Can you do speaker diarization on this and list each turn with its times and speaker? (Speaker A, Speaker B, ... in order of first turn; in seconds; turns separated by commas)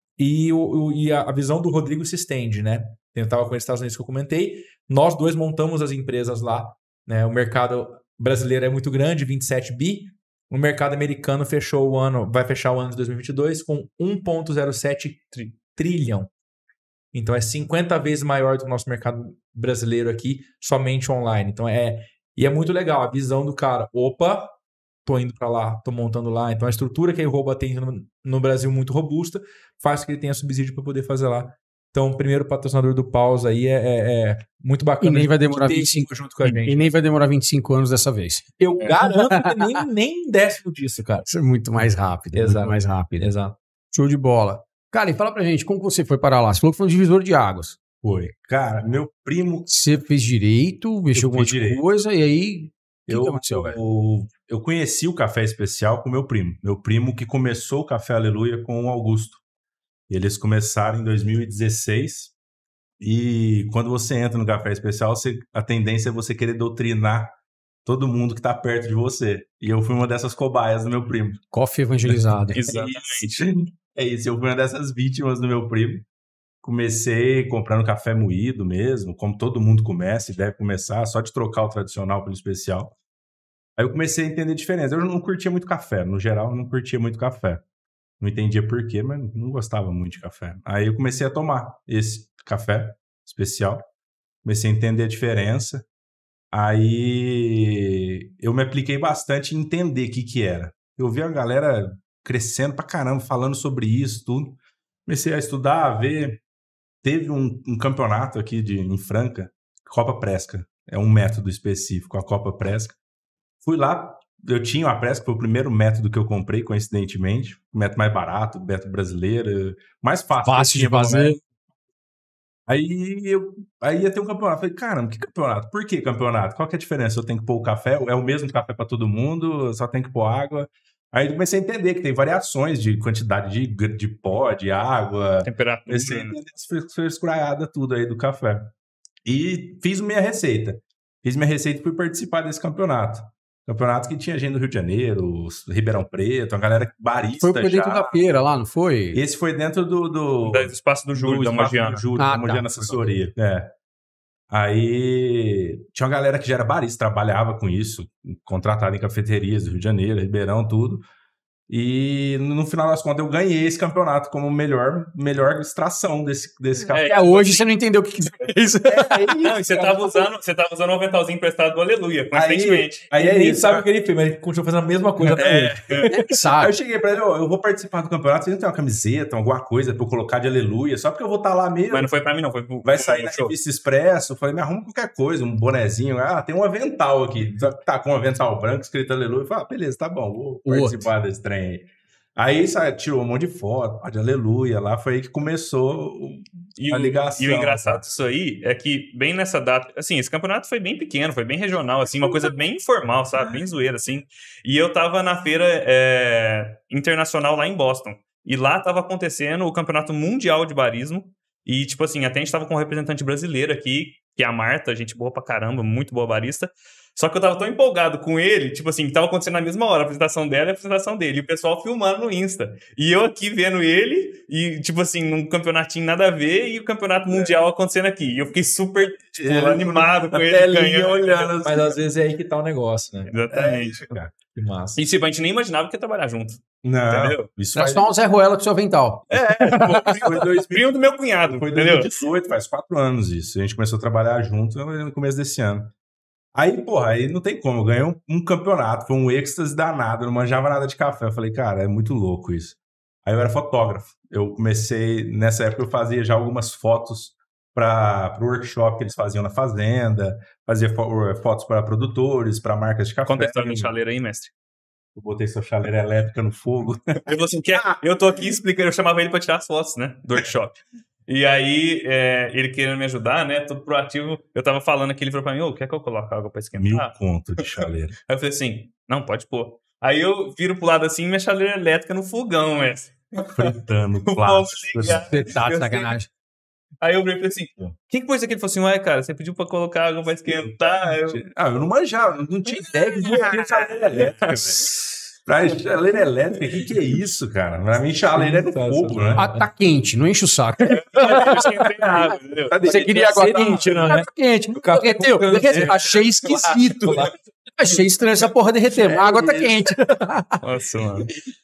Speaker A: 0.2-16.3, Speaker A: 17.1-36.9, Speaker B: 35.0-36.1, Speaker B: 36.6-38.5, Speaker A: 38.6-41.3, Speaker B: 39.0-39.8, Speaker B: 41.3-43.3, Speaker A: 42.3-43.5, Speaker B: 43.9-47.8, Speaker C: 48.0-49.7, Speaker B: 49.7-53.8, Speaker C: 51.1-51.8, Speaker C: 53.1-59.4, Speaker C: 60.1-62.3, Speaker C: 63.0-71.4, Speaker B: 71.5-72.6, Speaker C: 72.0-76.0, Speaker D: 72.5-73.4, Speaker C: 76.6-83.0, Speaker C: 83.8-87.6, Speaker C: 88.2-93.9, Speaker C: 94.4-95.8, Speaker C: 96.5-106.4, Speaker C: 107.0-113.0, Speaker C: 113.6-121.4, Speaker B: 120.4-121.4, Speaker C: 122.7-138.7, Speaker D: 135.4-136.4, Speaker C: 139.2-148.3, Speaker B: 147.4-149.2, Speaker C: 149.1-153.7, Speaker D: 150.4-152.0, Speaker B: 152.2-153.0, Speaker C: 154.5-161.0, Speaker C: 161.7-167.6, Speaker D: 166.9-167.6, Speaker B: 166.9-169.4, Speaker C: 168.8-170.3, Speaker D: 169.4-173.1, Speaker C: 172.3-173.8, Speaker A: 173.1-176.1, Speaker D: 175.3-176.1, Speaker C: 175.3-182.1, Speaker B: 176.1-176.8, Speaker D: 181.9-183.5, Speaker C: 182.8-198.0, Speaker B: 190.7-191.1, Speaker D: 196.8-231.5, Speaker C: 227.3-227.5, Speaker C: 229.3-231.9, Speaker A: 231.6-233.3, Speaker D: 233.2-234.2, Speaker C: 233.5-234.3, Speaker A: 234.5-235.0, Speaker D: 234.9-237.5, Speaker C: 236.8-238.1, Speaker B: 237.7-240.2, Speaker C: 239.3-245.9, Speaker D: 240.1-242.1, Speaker C: 246.5-263.9, Speaker D: 263.2-264.5, Speaker C: 265.1-268.0, Speaker D: 267.2-286.2, Speaker C: 276.8-278.1, Speaker C: 283.4-285.5, Speaker B: 285.0-286.3, Speaker D: 287.0-291.4, Speaker C: 291.1-299.4, Speaker D: 293.2-295.1, Speaker A: 298.3-299.7, Speaker B: 299.4-301.6, Speaker D: 301.1-302.8, Speaker C: 302.0-303.8, Speaker B: 302.3-310.6, Speaker A: 302.8-307.3, Speaker C: 309.0-309.9, Speaker D: 310.6-311.3